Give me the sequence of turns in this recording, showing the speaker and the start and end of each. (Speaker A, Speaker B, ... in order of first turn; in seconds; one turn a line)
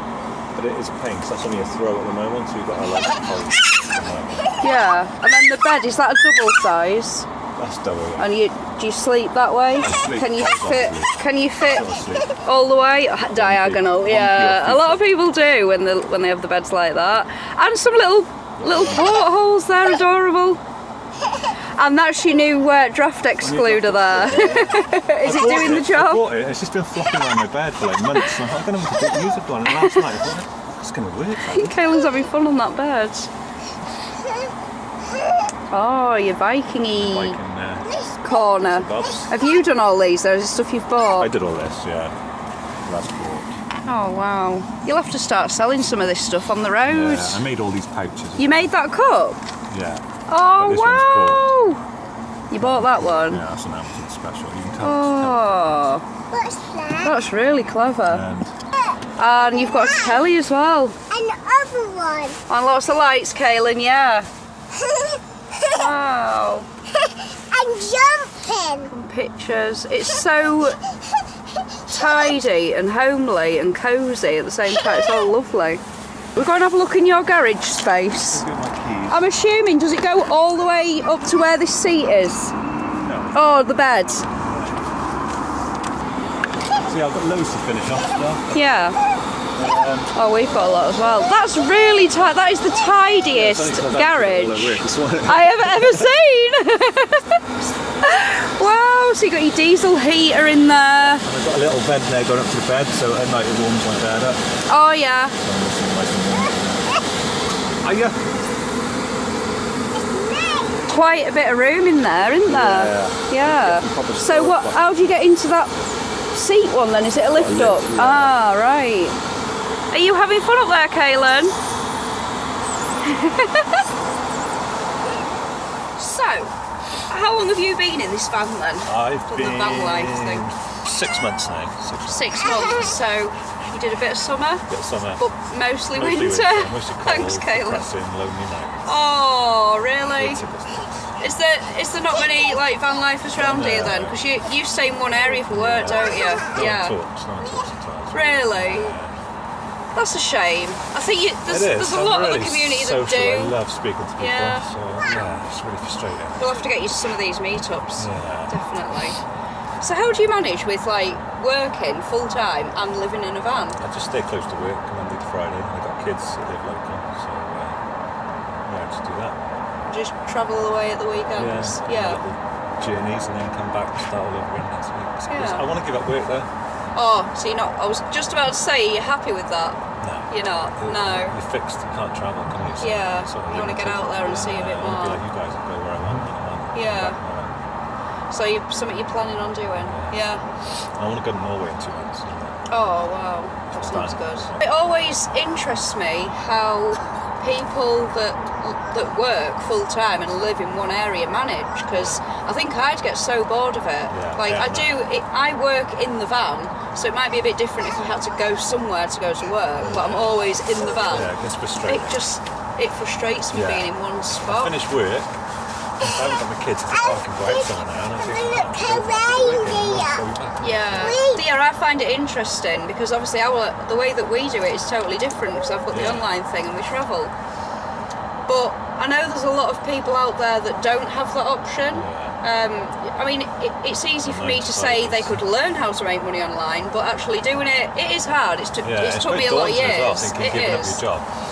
Speaker A: 0.5-4.5
Speaker B: 4.6-7.3
Speaker A: 7.6-8.3
Speaker B: 8.2-20.6
Speaker A: 9.8-12.3
Speaker A: 13.3-15.1
Speaker A: 18.6-19.2
Speaker B: 21.8-26.3
Speaker A: 23.4-31.8
Speaker B: 29.7-30.1
Speaker B: 31.4-33.3
Speaker B: 35.7-37.4
Speaker A: 36.9-38.0
Speaker B: 38.1-41.3
Speaker A: 38.6-39.3
Speaker A: 41.2-42.1
Speaker A: 42.9-43.5
Speaker B: 43.9-47.4
Speaker A: 46.8-48.7
Speaker B: 48.4-49.4
Speaker A: 49.7-50.0
Speaker B: 50.3-51.8
Speaker A: 50.6-51.5
Speaker B: 52.5-53.4
Speaker A: 52.6-55.9
Speaker B: 54.8-56.0
Speaker C: 56.3-57.1
Speaker B: 57.0-58.2
Speaker A: 58.1-58.5
Speaker B: 59.2-61.0
Speaker C: 61.1-62.4
Speaker B: 62.5-64.3
Speaker B: 65.7-66.7
Speaker C: 67.5-68.9
Speaker B: 68.9-70.8
Speaker B: 71.9-75.8
Speaker B: 76.3-78.4
Speaker A: 78.1-79.2
Speaker B: 79.1-82.5
Speaker A: 83.0-83.4
Speaker B: 83.3-84.3
Speaker A: 84.3-84.8
Speaker A: 86.7-88.6
Speaker B: 88.5-89.0
Speaker A: 89.5-90.1
Speaker B: 90.1-97.4
Speaker A: 93.3-96.1
Speaker B: 98.0-101.2
Speaker A: 101.0-104.5
Speaker B: 104.7-105.4
Speaker A: 105.4-107.0
Speaker A: 107.8-108.3
Speaker C: 110.2-110.8
Speaker B: 110.9-115.8
Speaker A: 112.5-115.0
Speaker B: 116.3-119.2
Speaker A: 117.3-118.4
Speaker B: 119.9-121.5
Speaker B: 123.0-123.8
Speaker B: 126.0-126.5
Speaker B: 127.1-130.4
Speaker A: 128.8-133.0
Speaker B: 132.1-134.7
Speaker A: 134.7-135.2
Speaker B: 135.2-137.9
Speaker A: 135.9-138.8
Speaker B: 138.8-140.4
Speaker A: 140.1-141.1
Speaker B: 141.2-146.9
Speaker A: 143.4-144.2
Speaker A: 145.5-149.2
Speaker B: 148.1-148.9
Speaker B: 149.9-153.6
Speaker A: 151.5-156.6
Speaker B: 154.2-154.7
Speaker B: 156.4-159.2
Speaker A: 158.0-158.6
Speaker B: 159.8-163.8
Speaker A: 163.8-167.8
Speaker A: 168.7-169.4
Speaker B: 169.9-172.2
Speaker A: 171.3-176.5
Speaker B: 175.3-175.6
Speaker B: 176.9-179.8
Speaker A: 180.0-187.6
Speaker B: 180.3-181.3
Speaker B: 182.8-185.2
Speaker B: 186.7-187.2
Speaker B: 188.3-190.4
Speaker A: 189.8-190.1
Speaker A: 190.7-192.6
Speaker B: 192.7-211.3
Speaker A: 193.7-194.7
Speaker A: 201.9-202.2
Speaker A: 204.1-204.9
Speaker A: 209.8-210.4
Speaker A: 211.0-212.2
Speaker B: 211.8-214.8
Speaker A: 213.5-213.9
Speaker A: 214.4-215.3
Speaker A: 216.0-221.2
Speaker C: 218.4-220.2
Speaker B: 220.6-227.3
Speaker C: 221.0-221.4
Speaker A: 225.9-226.3
Speaker B: 228.5-241.0
Speaker A: 231.9-232.4
Speaker A: 234.2-235.4
Speaker A: 238.8-241.2